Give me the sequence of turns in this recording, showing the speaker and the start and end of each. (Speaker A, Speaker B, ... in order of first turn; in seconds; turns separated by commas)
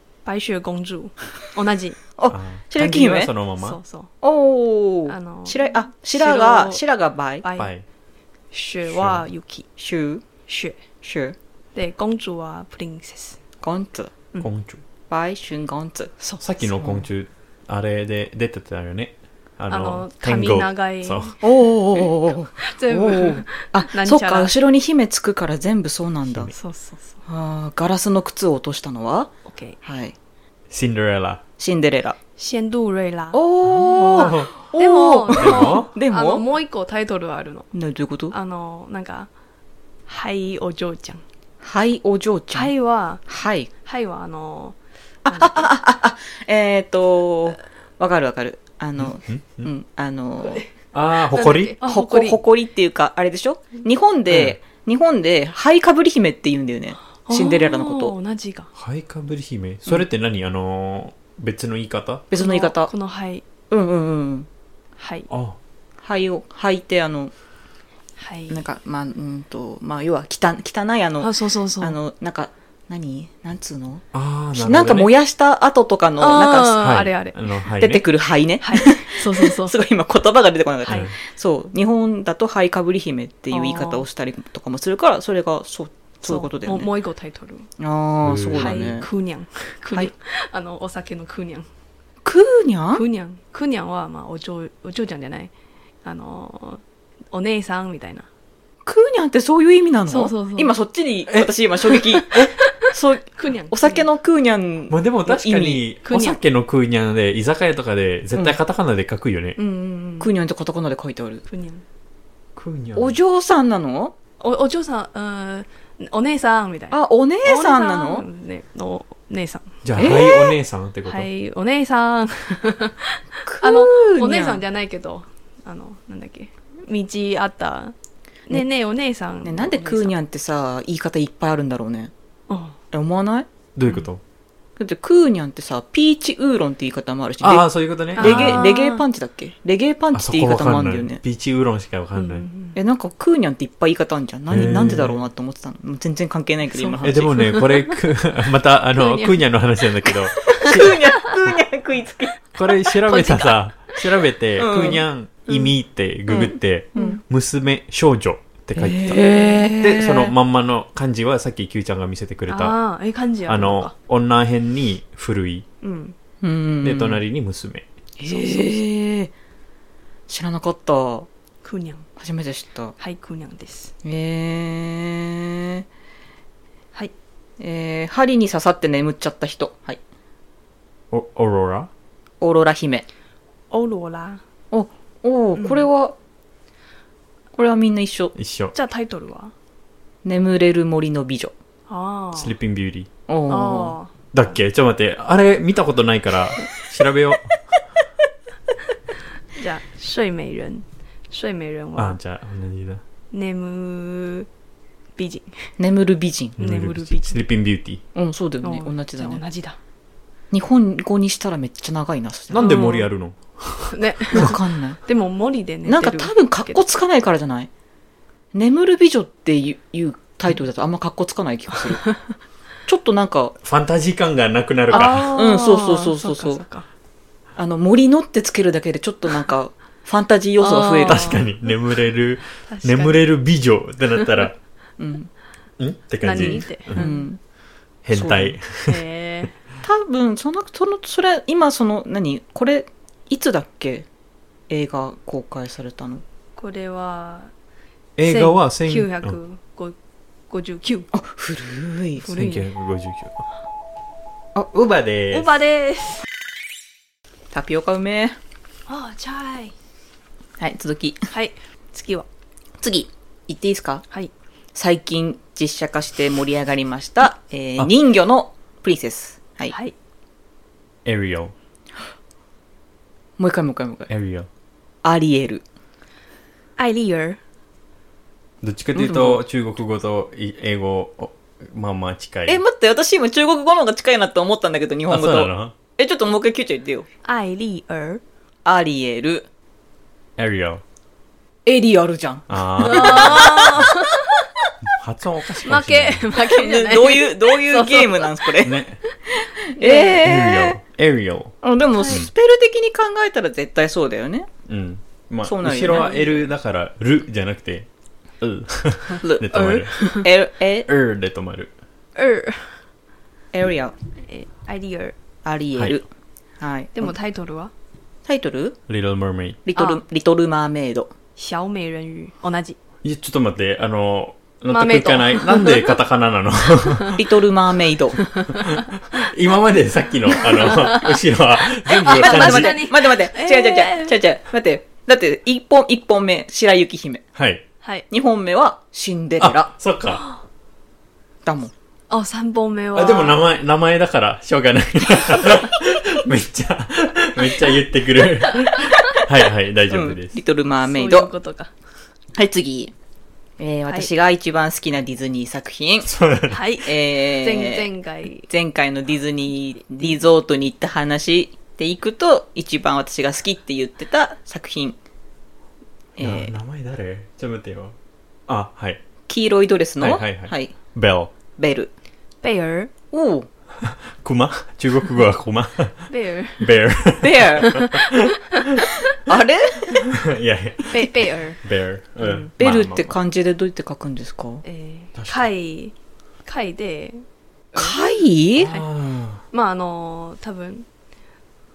Speaker A: 0.2-2.0, Speaker B: 2.2-3.3, Speaker C: 2.3-3.8, Speaker A: 3.6-4.1, Speaker B: 4.2-7.5, Speaker A: 5.1-6.8, Speaker A: 7.4-7.7, Speaker C: 7.5-7.8, Speaker A: 8.5-9.7, Speaker C: 8.9-9.2, Speaker B: 9.8-10.2, Speaker A: 10.5-10.8, Speaker B: 11.0-11.4, Speaker A: 11.7-13.4, Speaker B: 13.6-14.1, Speaker C: 14.4-14.8, Speaker B: 15.1-16.1, Speaker C: 16.4-21.3, Speaker B: 16.7-17.0, Speaker A: 19.7-21.4, Speaker B: 21.4-26.5, Speaker A: 22.0-24.5, Speaker C: 26.3-26.5, Speaker A: 26.5-27.2, Speaker B: 27.2-30.1, Speaker A: 29.5-29.8, Speaker C: 30.7-31.4, Speaker B: 31.6-32.2, Speaker A: 32.4-33.4, Speaker B: 33.3-36.4, Speaker C: 33.6-34.5, Speaker A: 33.9-37.7, Speaker C: 35.4-35.9, Speaker B: 37.7-38.4, Speaker A: 38.3-39.3, Speaker A: 40.1-41.2, Speaker B: 41.6-42.7, Speaker A: 42.5-43.2, Speaker B: 43.2-43.7, Speaker A: 43.8-44.8, Speaker B: 45.2-50.6, Speaker A: 45.3-45.6, Speaker C: 49.0-49.7, Speaker C: 50.9-51.8, Speaker A: 51.3-52.4, Speaker B: 51.8-58.1, Speaker C: 54.3-54.6, Speaker A: 57.2-58.7, Speaker C: 58.8-62.3, Speaker B: 62.3-62.9, Speaker A: 62.4-63.4, Speaker B: 63.7-64.5, Speaker A: 65.0-65.3, Speaker C: 65.3-65.6, Speaker B: 66.0-67.3, Speaker A: 68.2-68.6, Speaker B: 68.5-76.8, Speaker A: 71.2-72.0, Speaker C: 74.1-75.1, Speaker A: 76.2-77.4, Speaker C: 76.8-78.0, Speaker B: 77.8-86.9, Speaker A: 78.6-79.8, Speaker C: 80.9-81.1, Speaker A: 83.5-84.0, Speaker A: 86.2-87.7, Speaker B: 87.8-89.0, Speaker C: 88.2-88.9, Speaker A: 88.5-91.7, Speaker B: 92.2-93.0, Speaker A: 92.9-95.5, Speaker A: 96.0-98.3, Speaker B: 98.9-105.8, Speaker A: 100.1-100.7, Speaker A: 102.0-104.1, Speaker C: 104.9-109.6, Speaker A: 106.0-106.4, Speaker A: 109.6-110.3, Speaker B: 110.1-111.4, Speaker A: 111.5-111.8, Speaker C: 112.5-113.2, Speaker B: 113.0-114.1, Speaker A: 114.4-120.3, Speaker B: 116.9-118.2, Speaker C: 119.8-121.3, Speaker B: 120.0-120.5, Speaker A: 121.0-128.0, Speaker B: 123.5-124.6, Speaker A: 128.5-130.1, Speaker B: 129.4-132.1, Speaker A: 132.5-132.8, Speaker B: 132.9-133.5, Speaker C: 133.8-134.2, Speaker B: 134.8-141.2, Speaker C: 137.4-138.7, Speaker A: 138.2-139.0, Speaker C: 140.1-142.5, Speaker A: 142.1-142.8, Speaker B: 142.8-147.4, Speaker C: 144.5-145.2, Speaker A: 146.7-148.0, Speaker C: 147.0-151.0, Speaker A: 148.9-149.4, Speaker A: 150.4-151.3, Speaker B: 150.5-152.4, Speaker C: 152.5-162.8, Speaker A: 152.9-153.6, Speaker B: 154.6-155.0, Speaker B: 156.3-157.2, Speaker A: 156.9-157.2, Speaker B: 158.8-160.3, Speaker A: 162.5-163.9, Speaker C: 163.5-165.7, Speaker A: 165.8-166.1, Speaker B: 166.4-167.2, Speaker C: 166.8-167.9, Speaker B: 168.2-169.3, Speaker A: 168.2-168.8, Speaker B: 170.3-171.3, Speaker A: 171.6-172.1, Speaker B: 172.2-172.9, Speaker A: 173.0-173.9, Speaker B: 174.0-175.9, Speaker B: 177.6-180.0, Speaker C: 181.1-181.9, Speaker B: 182.4-183.1, Speaker A: 183.7-184.4, Speaker B: 184.7-186.1, Speaker A: 185.6-185.9, Speaker B: 187.5-188.3, Speaker C: 188.3-188.7, Speaker A: 188.7-189.5, Speaker B: 190.2-191.5, Speaker A: 191.9-192.5, Speaker C: 192.3-193.1, Speaker B: 193.3-193.9, Speaker A: 193.5-194.1, Speaker C: 194.3-197.6, Speaker A: 199.5-202.2, Speaker C: 202.0-203.0, Speaker A: 203.3-204.5, Speaker A: 205.2-205.7, Speaker B: 205.8-206.6, Speaker C: 206.6-208.0, Speaker A: 206.6-207.4, Speaker B: 208.1-209.4, Speaker A: 208.6-209.8, Speaker B: 210.5-212.8, Speaker C: 212.5-214.5, Speaker A: 212.6-213.1, Speaker A: 213.9-216.8, Speaker B: 214.3-215.0, Speaker B: 215.9-217.7, Speaker B: 218.5-222.1, Speaker A: 221.9-222.3, Speaker B: 222.9-223.6, Speaker C: 223.6-225.3, Speaker A: 224.9-226.9, Speaker B: 224.9-226.6, Speaker B: 227.6-231.4, Speaker A: 230.6-231.4, Speaker C: 231.0-234.6, Speaker A: 232.7-233.3, Speaker B: 235.0-235.3, Speaker C: 235.8-237.1, Speaker A: 236.2-237.2, Speaker B: 236.4-237.4, Speaker C: 238.0-239.0, Speaker B: 238.1-238.6, Speaker A: 238.9-239.5, Speaker B: 239.8-244.1, Speaker B: 244.7-246.2, Speaker A: 246.6-247.5, Speaker C: 248.2-249.4, Speaker A: 248.2-250.0, Speaker A: 250.5-251.1, Speaker B: 251.1-252.2, Speaker A: 252.2-252.7, Speaker C: 252.3-253.4, Speaker C: 254.6-255.5, Speaker A: 255.3-256.2, Speaker B: 257.5-258.4, Speaker A: 258.9-259.7, Speaker B: 260.6-261.3, Speaker A: 261.3-262.2, Speaker B: 262.8-264.0, Speaker B: 264.8-269.7, Speaker A: 269.7-269.9, Speaker C: 271.0-271.5, Speaker B: 273.4-274.1, Speaker C: 274.1-274.5, Speaker B: 275.0-275.6, Speaker A: 276.8-277.4, Speaker C: 278.6-282.6, Speaker B: 278.9-279.4, Speaker B: 282.5-287.1, Speaker C: 285.1-285.8, Speaker A: 287.2-288.2, Speaker B: 288.6-289.5, Speaker C: 290.4-290.8, Speaker B: 291.6-294.0, Speaker C: 292.5-293.9, Speaker A: 292.8-294.4, Speaker C: 294.9-296.3, Speaker A: 295.6-298.4, Speaker B: 296.4-300.8, Speaker C: 298.6-299.0, Speaker A: 299.8-300.2, Speaker C: 300.2-302.3, Speaker B: 301.6-304.5, Speaker C: 304.7-307.9, Speaker B: 305.4-306.1, Speaker A: 305.9-306.4, Speaker C: 308.4-309.9, Speaker B: 309.2-310.9, Speaker A: 309.5-310.3, Speaker C: 310.9-311.7, Speaker A: 312.1-312.8, Speaker B: 313.5-313.9, Speaker A: 314.2-315.1, Speaker B: 315.4-316.0, Speaker B: 316.6-317.1, Speaker A: 316.9-317.7, Speaker B: 318.2-318.8, Speaker C: 318.9-319.6, Speaker B: 319.6-321.1, Speaker A: 319.8-320.0, Speaker A: 321.4-322.8, Speaker C: 323.0-327.2, Speaker A: 324.7-325.9, Speaker B: 327.1-328.2, Speaker A: 328.2-328.9, Speaker C: 328.5-332.8, Speaker A: 330.4-331.1, Speaker A: 331.9-334.2, Speaker B: 332.0-337.2, Speaker C: 337.4-337.6, Speaker B: 338.1-339.7, Speaker C: 339.4-340.2, Speaker A: 340.1-340.4, Speaker B: 341.4-341.7, Speaker A: 342.1-343.4, Speaker C: 342.9-350.4, Speaker B: 349.9-351.3, Speaker A: 350.9-351.7, Speaker B: 352.4-352.9, Speaker B: 353.6-356.1, Speaker C: 356.0-356.6, Speaker A: 356.5-358.5, Speaker B: 356.8-357.9, Speaker B: 358.5-365.0, Speaker B: 366.2-366.5, Speaker C: 366.2-368.0, Speaker C: 368.5-369.0, Speaker B: 369.3-370.8, Speaker C: 370.0-371.3, Speaker B: 371.6-371.9, Speaker A: 372.4-372.9, Speaker B: 373.1-373.5, Speaker C: 373.8-378.8, Speaker A: 376.1-376.8, Speaker B: 377.2-377.8, Speaker A: 377.6-378.9, Speaker B: 379.2-380.1, Speaker C: 380.0-383.1, Speaker A: 380.9-381.6, Speaker A: 382.2-382.5, Speaker B: 382.6-384.6, Speaker A: 384.6-385.9, Speaker C: 385.1-385.5, Speaker A: 386.4-388.0, Speaker B: 387.7-388.7, Speaker C: 388.6-389.4, Speaker A: 389.5-390.9